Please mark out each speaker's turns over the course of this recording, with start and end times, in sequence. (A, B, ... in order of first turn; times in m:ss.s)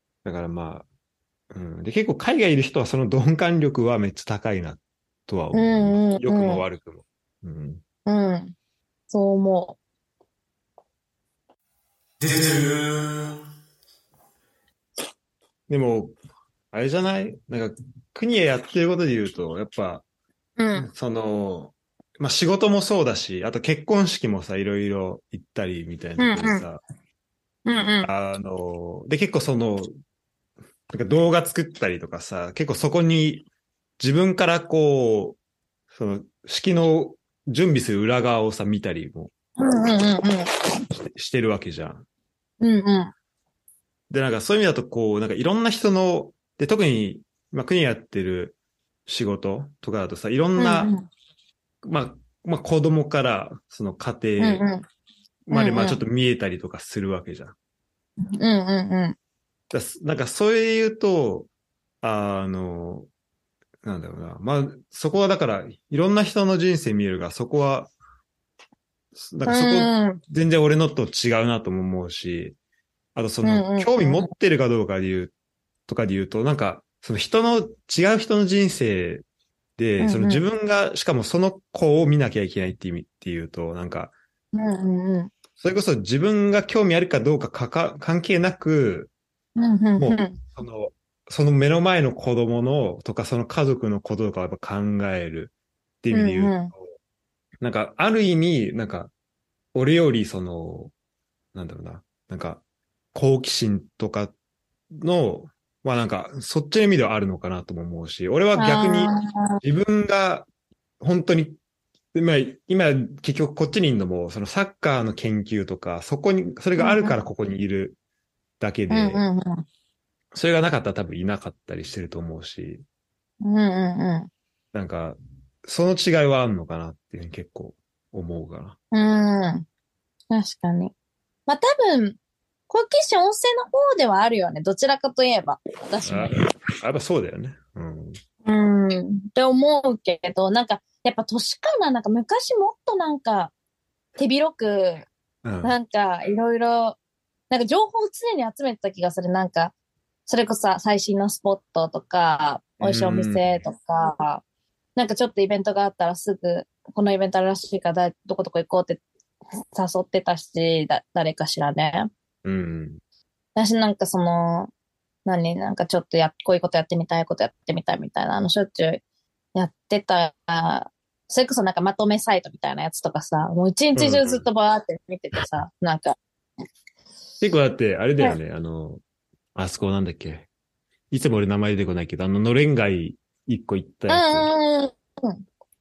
0:00.2-0:00.8 A
0:01.5-0:07.8 A
0:05.5-0:06.6 B
0:08.0-0:08.5 B
0:09.1-0:09.8 B
0:12.2-0:13.3 A
0:15.7-0:16.1 A
0:16.7-0:20.0 A
0:20.6-0:20.9 B
0:20.7-0:26.8 A
0:26.2-0:26.6 B
0:27.6-0:28.1 B
0:28.0-0:29.9 A
0:30.9-0:33.4 A
0:34.0-0:35.4 A
0:35.9-0:39.3 A
0:39.6-0:40.5 B
0:41.0-0:42.0 A
0:42.6-0:43.1 B
0:44.1-0:48.6 A
0:49.1-0:50.9 A
0:50.6-0:51.0 B
0:51.8-0:54.6 A
0:54.4-0:54.8 B
0:55.5-0:57.5 A
0:55.5-0:56.0 B
0:58.3-0:59.2 B
0:59.7-1:01.5 A
1:02.0-1:03.1 A
1:03.8-1:07.9 A
1:09.2-1:12.6 A
1:09.4-1:10.2 B
1:13.1-1:15.3 A
1:13.4-1:14.3 B
1:15.9-1:19.2 A
1:19.8-1:24.1 A
1:20.0-1:20.4 B
1:24.5-1:25.3 B
1:25.6-1:29.1 A
1:29.6-1:30.4 B
1:30.0-1:36.8 A
1:36.1-1:36.7 B
1:37.6-1:39.1 A
1:39.7-1:40.9 A
1:41.5-1:42.6 A
1:43.1-1:44.3 A
1:45.0-1:50.5 A
1:48.6-1:49.6 B
1:51.0-1:51.6 A
1:52.1-1:58.0 A
1:56.8-1:57.2 B
1:58.6-1:59.2 A
1:58.9-1:59.6 B
2:00.3-2:02.8 A
2:03.4-2:04.3 B
2:04.7-2:08.8 A
2:08.9-2:09.6 B
2:10.3-2:10.9 B
2:11.5-2:12.2 B
2:12.7-2:16.4 B
2:16.0-2:18.2 A
2:18.4-2:23.5 B
2:24.2-2:25.0 B
2:25.4-2:25.7 A
2:25.6-2:27.0 B
2:27.5-2:29.7 B
2:30.3-2:34.4 B
2:32.8-2:33.6 A
2:35.0-2:39.0 B
2:39.7-2:42.1 B
2:42.4-2:43.0 A
2:43.6-2:44.7 B
2:45.2-2:49.0 B
2:49.5-2:56.2 B
2:53.9-2:54.5 A
2:57.4-2:59.0 A
2:59.5-3:00.5 A
3:01.1-3:04.5 A
3:04.1-3:05.4 B